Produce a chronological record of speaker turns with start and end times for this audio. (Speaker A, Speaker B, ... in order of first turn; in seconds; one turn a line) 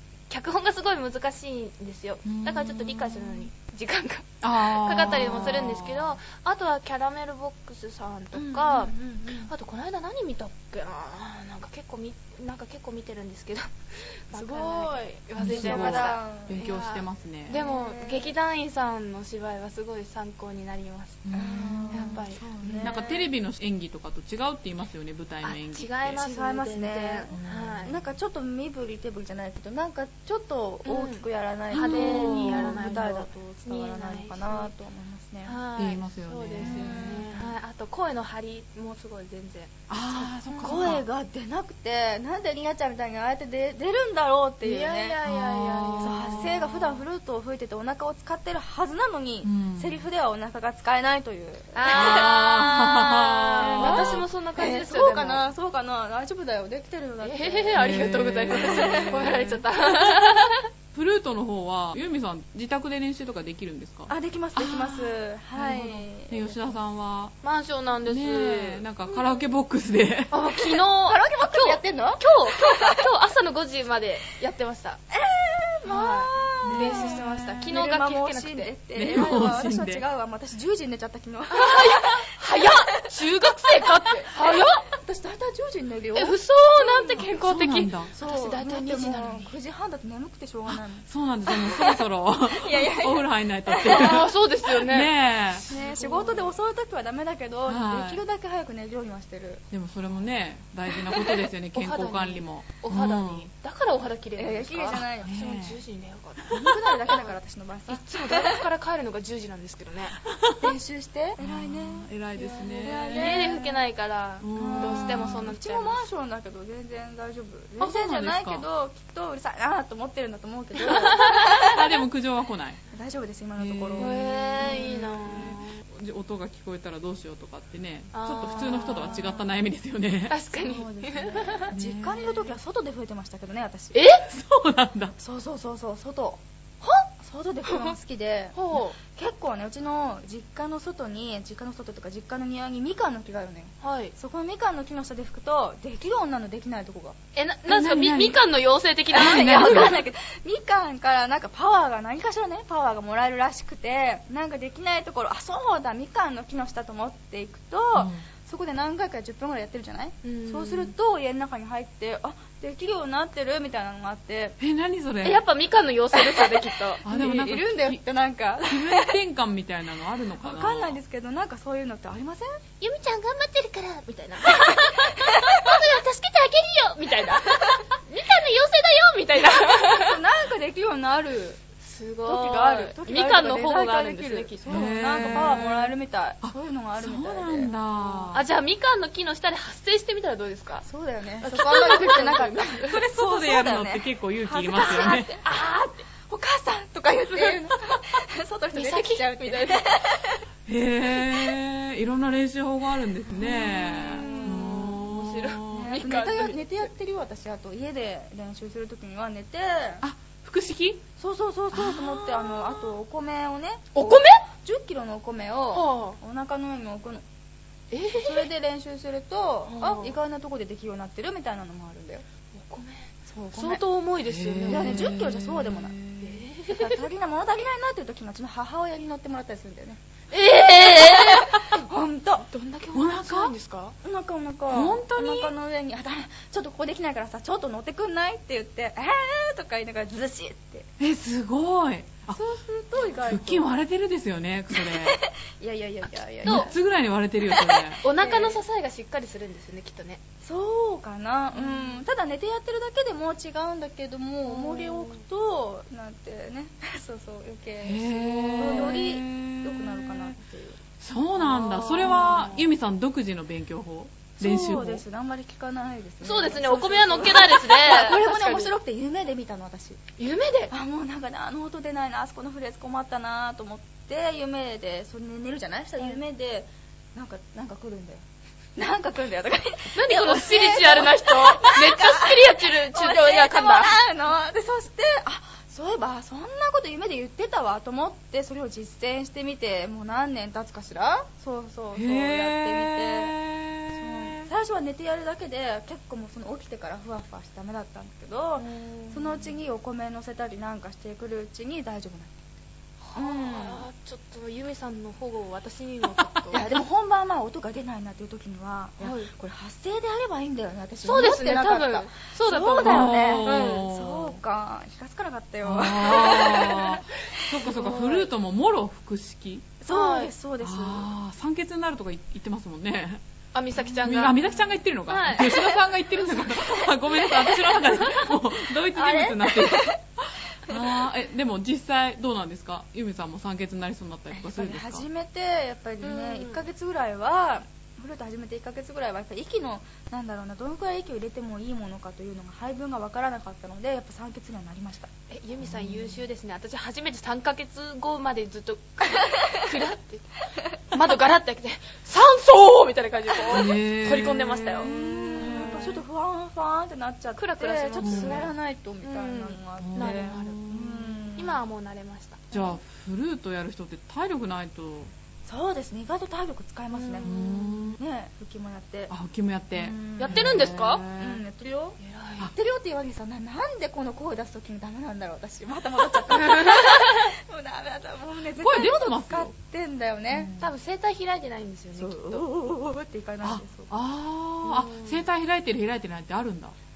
Speaker A: 0.3-21.2
Speaker B: 2.2-3.4
Speaker B: 4.4-6.1
Speaker C: 8.3-9.5
Speaker C: 14.3-16.6
Speaker B: 15.4-17.6
Speaker C: 17.5-18.4
Speaker B: 21.2-22.2
Speaker C: 21.3-23.3
Speaker A: 21.9-23.0
Speaker B: 22.8-26.2
Speaker A: 25.4-27.9
Speaker C: 26.1-27.3
Speaker B: 27.3-28.0
Speaker C: 27.9-35.6
Speaker A: 30.9-34.7
Speaker B: 31.7-32.9
Speaker A: 35.5-40.9
Speaker B: 35.8-37.4
Speaker C: 36.6-37.4
Speaker B: 39.9-41.0
Speaker C: 40.6-45.2
Speaker A: 44.6-46.5
Speaker B: 45.2-46.8
Speaker C: 46.0-52.4
Speaker B: 49.4-50.0
Speaker A: 51.7-55.5
Speaker B: 51.9-54.2
Speaker C: 53.6-59.3
Speaker A: 57.2-60.6
Speaker B: 57.8-59.6
Speaker B: 60.9-67.3
Speaker C: 64.1-66.6
Speaker A: 67.4-68.8
Speaker B: 68.1-70.3
Speaker A: 70.3-75.0
Speaker C: 71.1-73.0
Speaker C: 75.1-82.8
Speaker A: 75.8-78.7
Speaker B: 76.7-77.5
Speaker B: 79.0-80.0
Speaker A: 81.5-84.9
Speaker C: 84.3-87.2
Speaker A: 86.2-89.5
Speaker B: 87.3-88.1
Speaker C: 88.1-94.2
Speaker B: 90.7-95.7
Speaker A: 93.9-96.5
Speaker C: 95.7-99.6
Speaker B: 97.7-98.2
Speaker B: 99.7-103.5
Speaker A: 101.7-107.3
Speaker C: 104.4-105.3
Speaker B: 105.2-105.8
Speaker C: 106.5-108.6
Speaker A: 107.9-110.2
Speaker C: 110.6-113.8
Speaker B: 111.4-113.5
Speaker A: 112.7-116.0
Speaker B: 114.4-115.5
Speaker C: 114.5-122.0
Speaker B: 117.8-118.7
Speaker A: 120.9-121.3
Speaker B: 121.5-122.8
Speaker C: 122.9-125.0
Speaker B: 123.6-130.4
Speaker A: 124.0-125.8
Speaker A: 128.1-129.4
Speaker A: 130.3-131.7
Speaker C: 130.5-134.0
Speaker B: 131.7-132.5
Speaker A: 133.9-134.3
Speaker B: 134.3-135.1
Speaker C: 135.2-147.2
Speaker A: 138.6-139.0
Speaker A: 143.8-144.1
Speaker A: 147.4-150.0
Speaker B: 147.7-148.4
Speaker C: 149.1-164.6
Speaker B: 149.1-150.0
Speaker B: 157.9-158.2
Speaker A: 160.2-160.9
Speaker B: 164.6-165.4
Speaker A: 165.2-167.0
Speaker C: 166.1-169.2
Speaker B: 167.1-168.0
Speaker B: 168.6-171.0
Speaker C: 170.4-172.6
Speaker A: 172.8-180.2
Speaker C: 174.5-175.8
Speaker C: 179.7-181.6
Speaker A: 181.8-185.7
Speaker C: 182.2-187.7
Speaker B: 184.7-185.9
Speaker B: 186.4-188.4
Speaker A: 188.3-190.8
Speaker C: 190.8-195.6
Speaker A: 191.4-193.0
Speaker B: 193.1-195.3
Speaker A: 194.8-196.0
Speaker C: 196.2-200.4
Speaker A: 198.7-200.0
Speaker B: 200.7-206.0
Speaker C: 201.1-201.6
Speaker C: 203.3-205.0
Speaker A: 204.2-206.9
Speaker C: 205.7-210.0
Speaker B: 210.0-211.0
Speaker C: 211.2-217.2
Speaker B: 211.7-212.5
Speaker A: 213.9-214.4
Speaker A: 215.7-216.2
Speaker A: 217.9-218.5
Speaker C: 218.2-222.2
Speaker A: 219.7-220.2
Speaker A: 222.6-225.1
Speaker C: 223.3-223.8
Speaker B: 224.3-226.4
Speaker C: 224.7-226.0
Speaker A: 226.2-227.0
Speaker C: 226.7-230.0
Speaker A: 230.3-231.7
Speaker C: 230.5-232.5
Speaker A: 232.5-234.0
Speaker B: 232.9-233.5
Speaker C: 234.0-240.9
Speaker B: 234.7-235.5
Speaker B: 241.0-242.4
Speaker C: 242.3-243.7
Speaker B: 243.1-245.2
Speaker C: 244.7-246.7
Speaker B: 246.4-248.0
Speaker A: 246.5-246.7
Speaker C: 247.4-248.6
Speaker A: 248.0-250.2
Speaker C: 250.4-260.8
Speaker A: 251.6-251.9
Speaker A: 254.5-255.2
Speaker B: 257.8-260.3
Speaker A: 258.4-259.0
Speaker B: 261.0-265.0
Speaker A: 261.4-262.6
Speaker C: 261.5-262.5
Speaker C: 264.4-270.0
Speaker A: 266.2-268.7
Speaker A: 270.2-270.7
Speaker C: 270.7-278.2
Speaker C: 278.8-293.4
Speaker A: 279.9-283.9
Speaker B: 291.9-294.5
Speaker C: 293.9-302.4
Speaker A: 298.6-299.5
Speaker A: 303.0-306.6
Speaker C: 303.1-303.8
Speaker C: 306.5-316.9
Speaker A: 309.0-309.3
Speaker A: 311.0-313.9
Speaker B: 312.8-314.4
Speaker B: 315.6-319.7
Speaker A: 316.4-316.9
Speaker C: 317.6-318.0
Speaker A: 317.7-318.3
Speaker C: 319.8-321.1
Speaker A: 319.9-320.3
Speaker B: 320.6-323.2
Speaker A: 323.5-324.5
Speaker B: 323.9-335.1
Speaker A: 325.1-325.6
Speaker C: 326.3-327.8
Speaker C: 328.9-330.0
Speaker C: 330.7-330.9
Speaker C: 334.3-345.1
Speaker A: 336.0-336.6
Speaker A: 345.3-355.8
Speaker B: 345.7-346.1
Speaker B: 353.5-355.8
Speaker C: 354.8-361.6
Speaker A: 357.4-358.5
Speaker B: 358.0-358.5
Speaker A: 359.0-360.7
Speaker B: 359.8-361.1
Speaker A: 361.4-362.5
Speaker B: 362.5-365.1
Speaker C: 365.5-369.1
Speaker A: 366.9-367.3
Speaker B: 367.2-368.0
Speaker B: 369.1-371.4
Speaker C: 369.7-380.5
Speaker A: 370.2-371.0
Speaker A: 372.0-372.5
Speaker A: 376.5-376.9
Speaker B: 378.6-379.5
Speaker B: 380.3-380.7
Speaker A: 380.6-382.4
Speaker C: 382.0-383.9
Speaker B: 383.4-386.8
Speaker A: 384.6-385.2